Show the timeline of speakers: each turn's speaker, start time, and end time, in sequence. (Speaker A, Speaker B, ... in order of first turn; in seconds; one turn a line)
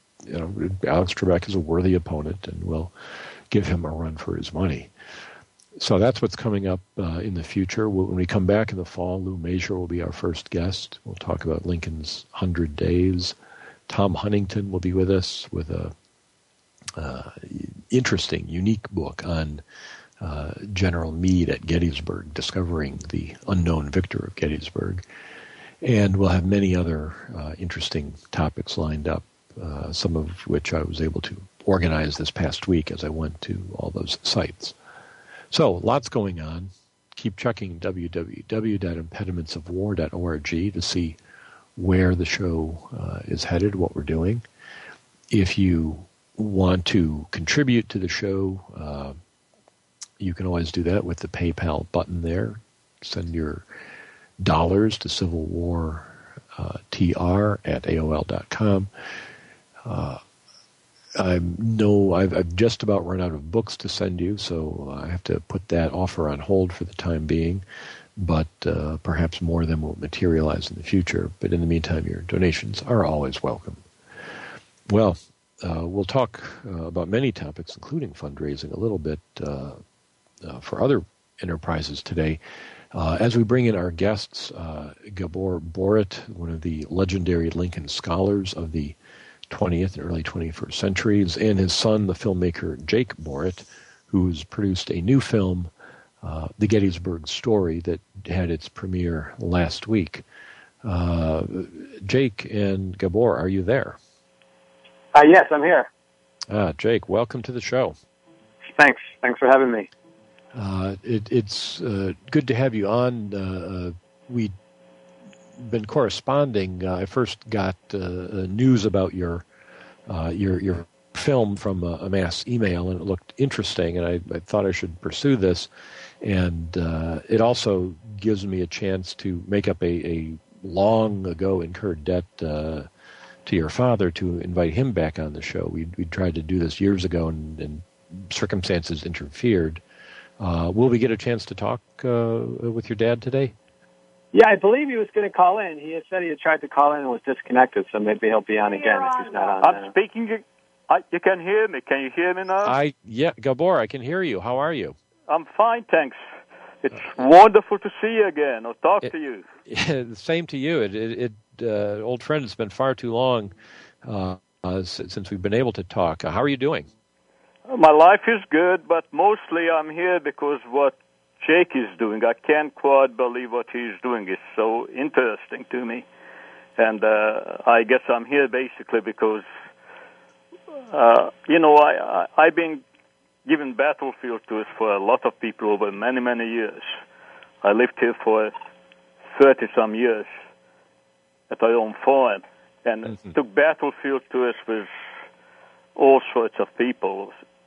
Speaker A: 0.2-2.9
Speaker A: 3.5-4.9
Speaker A: 5.8-13.3
Speaker A: 13.9-15.9
Speaker A: 16.9-19.6
Speaker A: 20.2-25.0
Speaker A: 25.8-34.8
Speaker A: 35.5-41.2
Speaker A: 41.8-44.4
Speaker A: 45.3-49.2
Speaker A: 50.2-53.6
Speaker A: 54.4-58.9
Speaker A: 59.8-60.2
Speaker A: 61.1-67.6
Speaker A: 68.2-73.8
Speaker A: 74.9-79.8
Speaker A: 80.4-82.4
Speaker A: 82.9-89.0
Speaker A: 89.5-95.7
Speaker A: 96.2-100.2
Speaker A: 100.8-104.0
Speaker B: 105.1-105.9
Speaker A: 106.5-108.0
Speaker B: 108.8-109.9
Speaker A: 110.5-114.5
Speaker A: 115.6-119.4
Speaker A: 120.1-125.7
Speaker A: 126.2-132.9
Speaker A: 133.4-139.8
Speaker A: 140.4-143.5
Speaker B: 144.3-149.9
Speaker C: 149.1-152.7
Speaker A: 152.6-155.0
Speaker C: 155.3-156.2
Speaker C: 156.8-159.4
Speaker A: 159.7-166.9
Speaker C: 167.7-176.0
Speaker C: 176.8-179.4
Speaker C: 180.9-182.8
Speaker C: 183.4-187.0
Speaker C: 187.6-188.5
Speaker C: 189.3-190.3
Speaker C: 191.5-194.9
Speaker C: 195.9-197.4